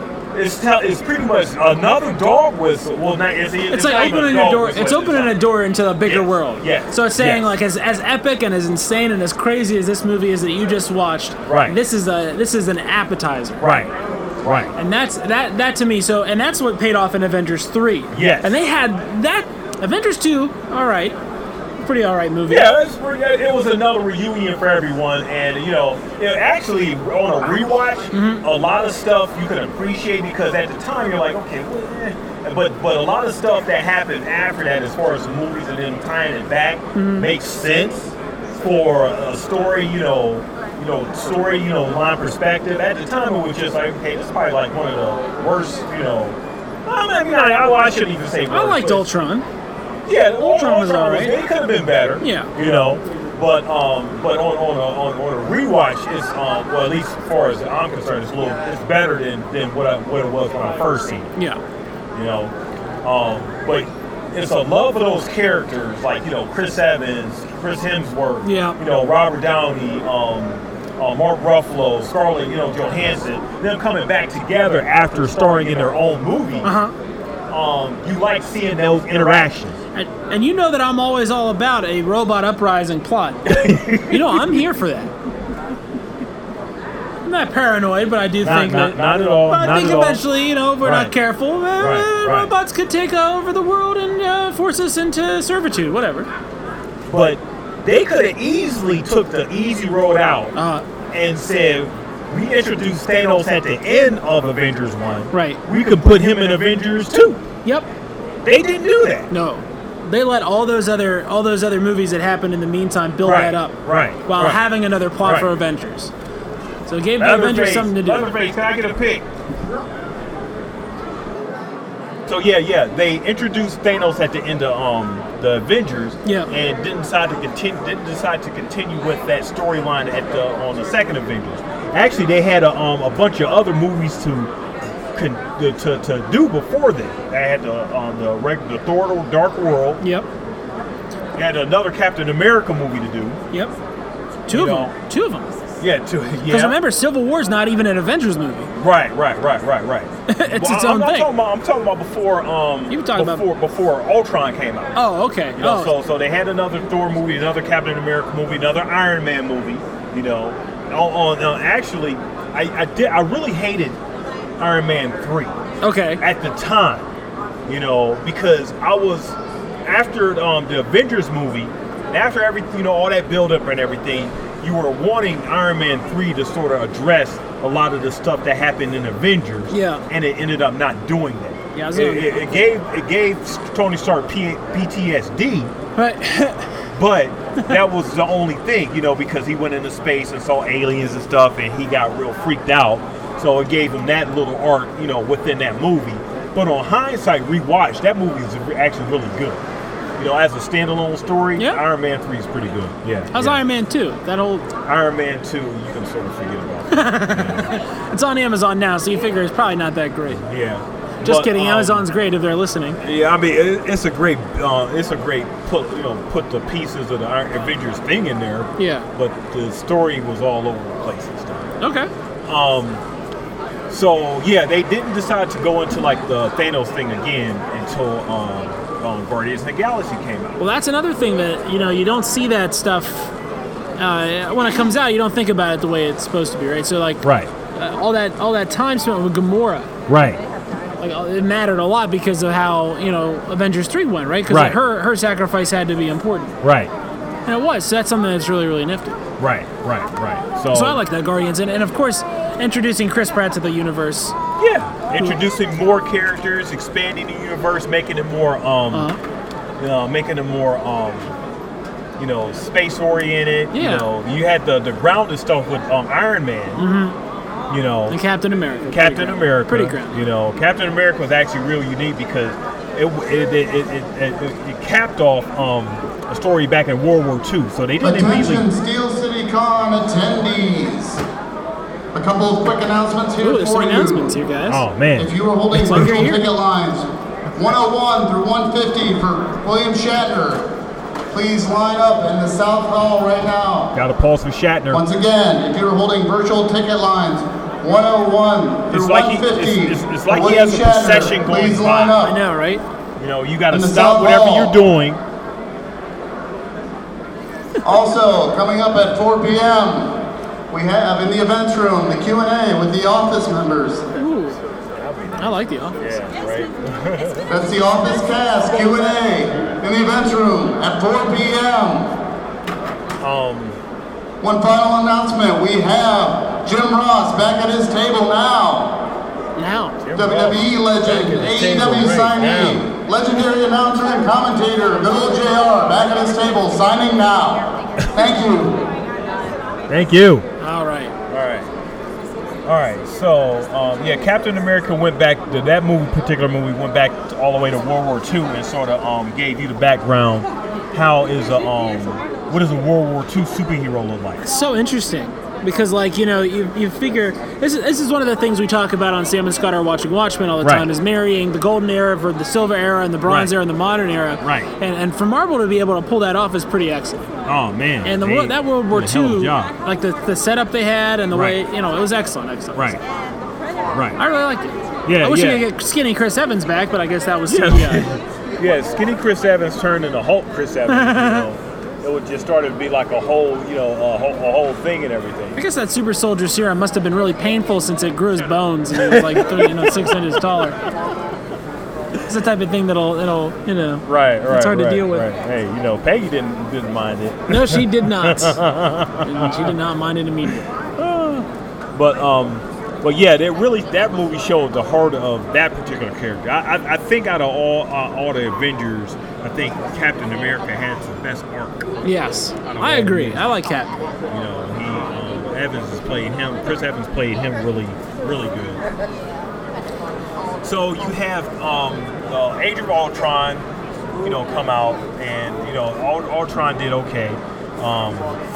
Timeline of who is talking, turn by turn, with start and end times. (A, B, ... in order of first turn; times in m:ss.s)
0:00.3-0:05.4 A
0:03.7-0:13.6 B
0:06.0-0:07.5 A
0:11.5-0:11.8 A
0:13.6-0:14.7 A
0:14.8-0:21.2 B
0:18.1-0:18.6 A
0:21.8-0:22.7 B
0:22.5-0:49.1 A
0:28.1-0:28.4 B
0:37.0-0:37.3 B
0:48.5-0:49.5 B
0:50.1-1:01.3 A
0:50.4-0:51.4 B
0:52.2-0:52.5 B
1:02.1-1:16.8 A
1:08.4-1:08.8 B
1:16.6-1:17.0 B
1:17.5-1:19.8 A
1:20.0-1:25.1 B
1:23.4-1:24.6 A
1:27.2-1:36.3 B
1:28.4-1:30.2 A
1:30.8-1:31.1 A
1:31.8-1:32.5 A
1:37.1-1:40.5 A
1:40.6-1:40.8 B
1:41.1-1:47.4 A
1:45.3-1:45.6 B
1:47.6-1:47.9 B
1:48.4-1:49.3 A
1:49.3-1:56.1 B
1:53.2-1:54.6 A
1:55.2-1:55.5 A
1:56.9-1:58.3 B
1:57.2-1:59.2 A
2:02.3-2:14.5 A
2:06.2-2:06.5 B
2:15.1-2:20.0 A
2:20.0-2:20.3 B
2:21.4-2:23.4 A
2:24.5-2:25.6 B
2:24.5-2:24.9 A
2:25.8-2:26.8 A
2:26.5-2:28.7 B
2:28.8-2:44.0 A
2:30.3-2:31.3 B
2:32.9-2:33.4 B
2:35.0-2:35.9 B
2:44.6-2:45.6 A
2:45.8-2:46.2 B
2:46.2-2:47.1 A
2:47.7-3:05.7 A
2:59.7-3:00.0 B
3:01.7-3:02.5 B
3:06.0-3:06.8 B
3:07.0-3:19.6 A
3:20.2-3:23.6 A
3:21.6-3:21.8 B
3:23.3-3:24.7 B
3:24.8-3:27.8 A
3:26.9-3:30.4 B
3:30.4-3:32.1 A
3:31.2-3:33.0 B
3:33.0-3:41.7 A
3:38.8-3:39.1 B
3:41.8-3:42.1 B
3:42.5-3:43.0 A
3:43.9-3:50.6 A
3:50.6-3:53.3 B
3:54.0-3:57.2 B
3:57.2-3:57.5 A
3:57.8-3:59.9 B
4:00.1-4:00.4 A
4:01.0-4:06.6 B
4:04.5-4:04.8 A
4:06.6-4:06.9 A
4:07.5-4:09.2 B
4:09.4-4:11.0 A
4:10.7-4:14.4 B
4:14.6-4:19.1 A
4:18.9-4:19.2 B
4:19.8-4:21.3 A
4:22.2-4:26.8 A
4:23.7-4:24.1 B
4:26.8-4:27.2 B
4:27.7-4:28.2 A
4:28.1-4:30.2 B
4:28.9-4:38.7 A
4:38.0-4:41.2 C
4:42.1-4:44.4 C
4:43.4-4:44.8 B
4:44.7-4:46.3 A
4:45.2-4:50.7 C
4:45.7-4:46.4 B
4:51.3-4:53.9 C
4:53.9-4:55.0 A
4:54.9-5:02.4 C
4:58.9-5:02.2 A
5:02.2-5:02.8 B
5:03.2-5:05.2 A
5:03.7-5:04.8 C
5:07.8-5:14.0 C
5:14.2-5:14.6 B
5:15.0-5:17.5 A
5:15.4-5:16.0 B
5:17.5-5:22.2 C
5:23.2-5:23.8 A
5:24.4-5:29.1 C
5:29.6-5:30.0 B
5:30.0-5:32.8 A
5:30.2-5:38.9 C
5:39.9-5:40.5 A
5:40.6-5:41.1 B
5:41.3-5:41.7 A
5:42.7-5:54.4 A
5:54.4-6:07.2 B
6:00.6-6:00.9 A
6:03.3-6:03.5 A
6:04.4-6:04.7 A
6:07.5-6:09.7 A
6:08.0-6:12.9 B
6:11.3-6:11.6 A
6:12.8-6:13.0 A
6:13.9-6:14.2 A
6:14.2-6:18.1 B
6:15.1-6:15.6 A
6:17.5-6:25.6 A
6:20.9-6:21.4 B
6:25.6-6:30.8 B
6:28.9-6:30.3 A
6:32.3-6:35.3 B
6:34.1-6:39.8 A
6:37.5-6:38.6 B
6:39.2-6:41.5 B
6:41.9-6:51.9 A
6:52.0-6:53.9 B
6:52.7-6:53.5 A
6:54.3-6:58.8 A
7:00.6-7:08.4 A